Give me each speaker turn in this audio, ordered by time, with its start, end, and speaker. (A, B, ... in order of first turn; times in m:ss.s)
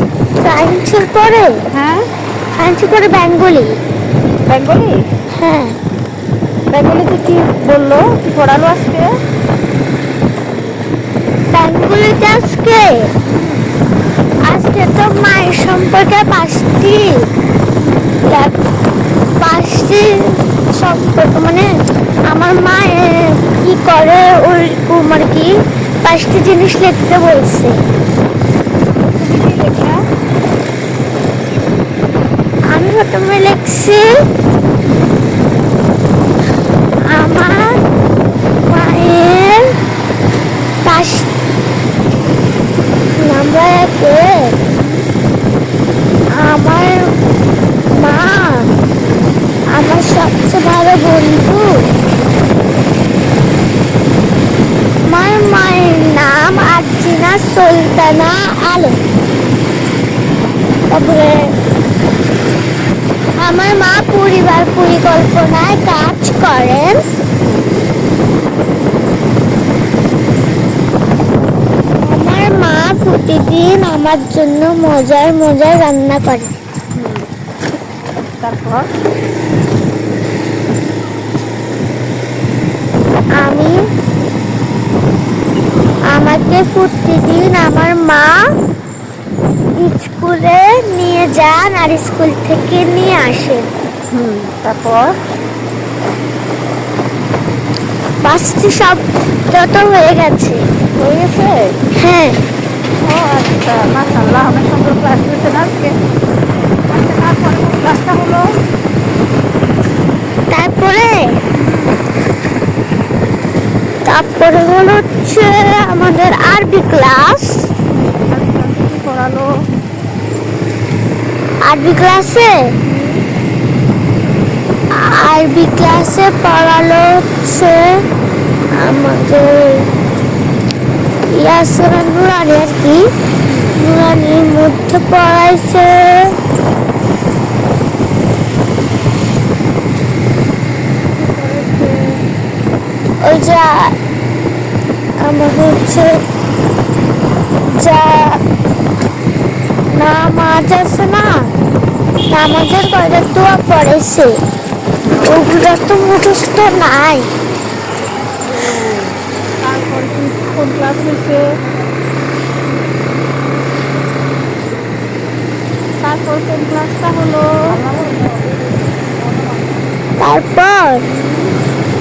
0:00.4-0:01.6 A
0:01.7-0:02.0 B
0:02.6-0:03.8 A
0:04.5-0:05.1 B
0:05.3-0:05.8 A
0:06.7-0:09.1 B
0:11.5-0:13.1 A
0:13.2-0:13.7 B
0:14.4-0:17.3 A
0:18.2-0:18.6 A
0:19.4-0:21.7 A
0:22.3-0:27.8 A
0:29.0-0:30.0 B
0:32.7-0:34.1 A
0:37.1-0:37.8 A
0:38.6-0:39.7 A
0:40.8-0:41.3 A
0:43.2-0:44.6 A
0:44.8-0:45.0 B
0:46.3-0:47.1 A
0:47.9-0:48.7 A
0:49.7-0:51.9 A
0:55.1-0:59.0 A
1:00.9-1:01.5 A
1:03.4-1:07.0 A
1:07.4-1:08.0 B
1:12.0-1:16.5 A
1:17.0-1:17.3 B
1:18.3-1:18.9 B
1:23.4-1:23.8 A
1:26.1-1:28.4 A
1:29.8-1:33.7 A
1:34.1-1:35.2 B
1:38.2-1:40.6 A
1:41.0-1:41.8 B
1:42.0-1:42.4 A
1:43.0-1:46.0 B
1:46.9-1:48.4 B
1:50.5-1:51.4 A
1:51.6-1:52.0 B
1:54.0-1:57.7 A
1:58.3-1:59.5 B
2:01.6-2:02.6 A
2:02.9-2:03.2 B
2:05.0-2:08.0 A
2:08.7-2:09.9 A
2:11.3-2:13.1 A
2:13.5-2:13.8 B
2:13.7-2:16.4 A
2:21.3-2:22.1 B
2:23.2-2:24.0 A
2:25.2-2:26.2 A
2:27.7-2:28.4 A
2:29.9-2:31.5 A
2:32.3-2:34.4 A
2:35.2-2:37.3 A
2:38.4-2:41.4 B
2:46.0-2:49.8 B
2:50.2-2:51.0 A
2:51.1-2:51.6 B